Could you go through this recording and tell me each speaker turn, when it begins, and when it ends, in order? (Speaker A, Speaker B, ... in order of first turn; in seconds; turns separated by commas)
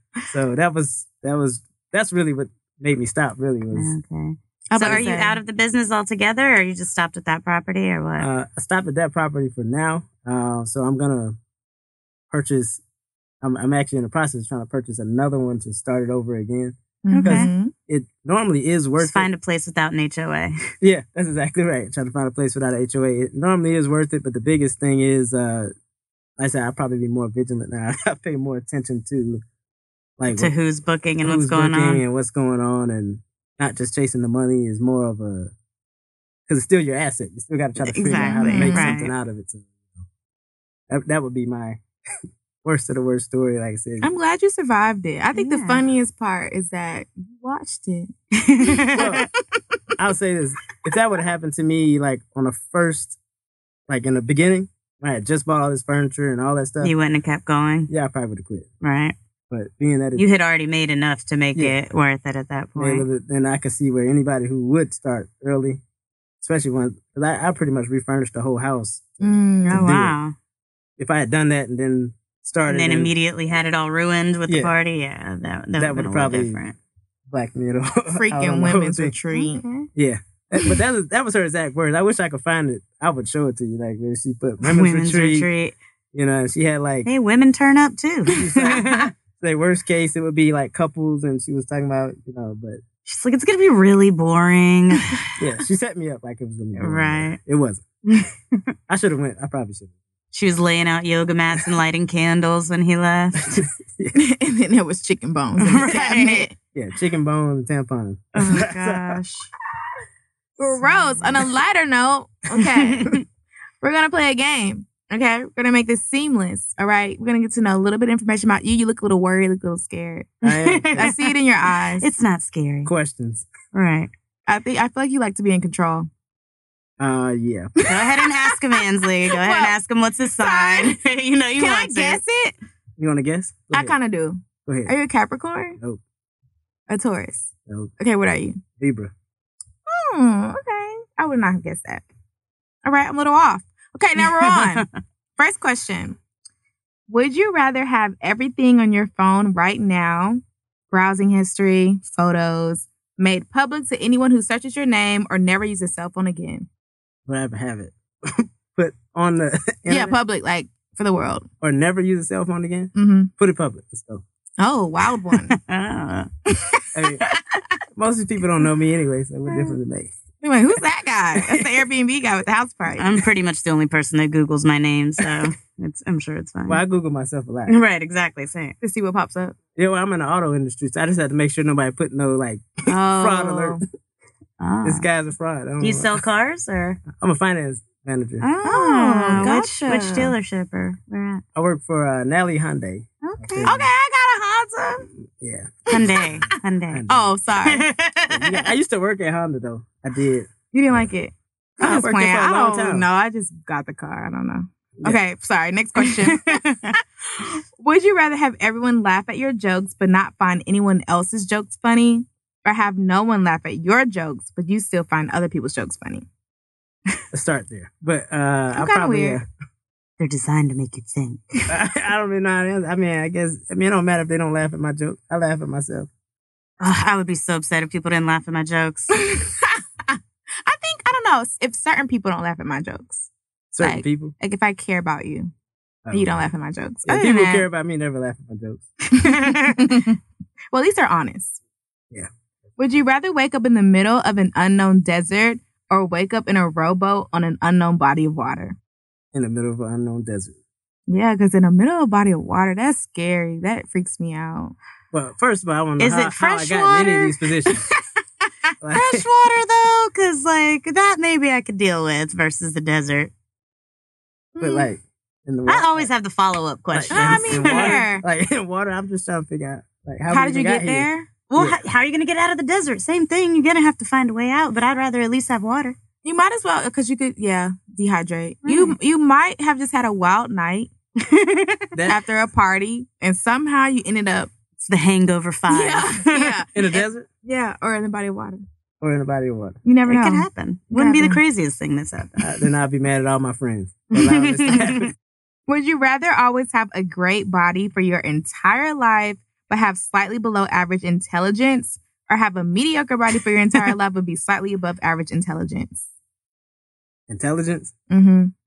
Speaker A: 0.3-3.9, Speaker B: 3.7-8.3, Speaker C: 4.7-5.4, Speaker A: 8.2-11.4, Speaker A: 12.3-12.8, Speaker A: 13.4-19.3, Speaker C: 17.0-17.7, Speaker B: 17.1-17.5, Speaker B: 19.0-20.6, Speaker A: 20.8-25.7, Speaker A: 26.4-29.4, Speaker A: 30.2-30.5, Speaker B: 30.3-32.0, Speaker A: 31.2-35.5, Speaker A: 36.5-40.0, Speaker B: 37.9-39.1, Speaker C: 38.0-38.9, Speaker A: 40.9-41.8, Speaker A: 42.6-44.1, Speaker C: 44.0-49.3, Speaker B: 45.3-45.9, Speaker B: 48.4-49.2, Speaker A: 48.9-49.3, Speaker A: 50.0-53.2, Speaker A: 53.9-56.9, Speaker B: 56.8-57.9, Speaker A: 57.9-58.7, Speaker B: 58.8-59.1, Speaker A: 59.5-60.3, Speaker B: 60.2-63.1, Speaker A: 62.8-65.8, Speaker A: 66.4-70.2, Speaker C: 69.2-69.9, Speaker B: 69.7-70.3, Speaker A: 71.0-73.1, Speaker B: 72.7-76.8, Speaker A: 75.8-76.6, Speaker A: 77.3-79.2, Speaker C: 78.1-79.7, Speaker B: 79.3-79.9, Speaker A: 80.0-85.5, Speaker B: 84.6-85.7, Speaker A: 86.1-87.1, Speaker B: 87.0-89.1, Speaker A: 88.3-92.8, Speaker B: 93.1-95.2, Speaker A: 95.4-97.8, Speaker B: 96.8-97.4, Speaker B: 98.1-98.6, Speaker A: 98.9-99.9, Speaker B: 100.3-103.6, Speaker A: 103.5-104.2, Speaker C: 104.1-106.5, Speaker B: 105.6-106.5, Speaker A: 106.8-109.2, Speaker B: 108.4-109.5, Speaker C: 110.6-113.2, Speaker B: 110.8-111.3, Speaker B: 112.9-113.2, Speaker C: 113.8-122.1, Speaker A: 120.4-121.1, Speaker B: 120.5-121.3, Speaker B: 122.0-122.9, Speaker A: 122.8-123.5, Speaker B: 123.7-124.1, Speaker C: 124.5-126.1, Speaker A: 127.0-127.7, Speaker C: 127.8-129.7, Speaker B: 127.9-132.2, Speaker C: 130.4-131.0, Speaker C: 131.6-132.6, Speaker A: 133.0-134.0, Speaker C: 133.7-135.8, Speaker A: 134.7-134.9, Speaker C: 136.9-138.6, Speaker A: 137.7-137.9, Speaker A: 138.8-139.1, Speaker C: 139.9-142.1, Speaker C: 142.8-144.9, Speaker B: 144.2-144.9, Speaker C: 145.4-146.2, Speaker C: 147.1-156.7, Speaker A: 157.3-160.2, Speaker C: 159.9-161.4, Speaker A: 161.6-164.2, Speaker C: 162.9-163.3, Speaker C: 164.6-165.6, Speaker B: 165.3-166.3, Speaker C: 166.5-166.8, Speaker A: 166.9-167.2, Speaker A: 168.0-170.1, Speaker C: 170.4-173.2, Speaker A: 171.3-171.7, Speaker B: 173.0-176.8, Speaker A: 176.7-177.8, Speaker B: 177.7-178.8, Speaker C: 178.8-179.6, Speaker A: 179.8-183.8, Speaker C: 182.9-183.8, Speaker B: 184.6-185.1, Speaker A: 184.8-186.2, Speaker B: 185.8-187.0, Speaker A: 187.1-188.5, Speaker B: 188.4-191.4, Speaker C: 188.6-190.3, Speaker A: 191.6-193.9, Speaker B: 193.2-193.7, Speaker C: 193.7-195.1, Speaker A: 195.4-197.3, Speaker B: 195.9-197.0, Speaker C: 195.9-196.2, Speaker C: 197.1-197.9, Speaker B: 197.7-198.7, Speaker A: 198.3-201.1, Speaker C: 200.7-216.3, Speaker A: 201.8-203.1, Speaker B: 206.0-206.9, Speaker A: 217.3-219.5, Speaker C: 218.8-219.4, Speaker B: 220.2-221.7, Speaker A: 221.7-226.1, Speaker B: 226.8-229.2, Speaker C: 229.2-233.3, Speaker A: 233.7-234.3, Speaker C: 233.8-235.5, Speaker A: 236.1-236.5, Speaker C: 236.1-237.7, Speaker A: 237.1-238.9, Speaker C: 239.1-240.2, Speaker B: 239.2-240.1, Speaker C: 240.7-241.6, Speaker C: 242.8-248.8, Speaker A: 249.3-250.6, Speaker C: 251.1-254.8, Speaker A: 255.1-257.9, Speaker B: 256.0-257.4, Speaker A: 258.8-259.3, Speaker B: 258.9-263.3, Speaker C: 264.6-264.9, Speaker A: 264.6-266.1, Speaker B: 265.7-268.0, Speaker A: 266.9-271.8, Speaker C: 267.1-268.2, Speaker C: 270.3-271.3, Speaker B: 271.5-276.0, Speaker C: 276.2-280.9, Speaker B: 278.6-279.0, Speaker B: 281.2-281.9, Speaker A: 281.9-282.2, Speaker C: 282.1-284.5, Speaker B: 284.8-286.6, Speaker C: 285.7-288.6, Speaker A: 286.8-287.3, Speaker A: 289.0-289.8, Speaker C: 289.9-291.4, Speaker B: 290.1-292.6, Speaker A: 292.4-295.1, Speaker B: 294.1-295.1, Speaker C: 295.7-306.0, Speaker A: 307.3-307.9, Speaker C: 308.1-308.5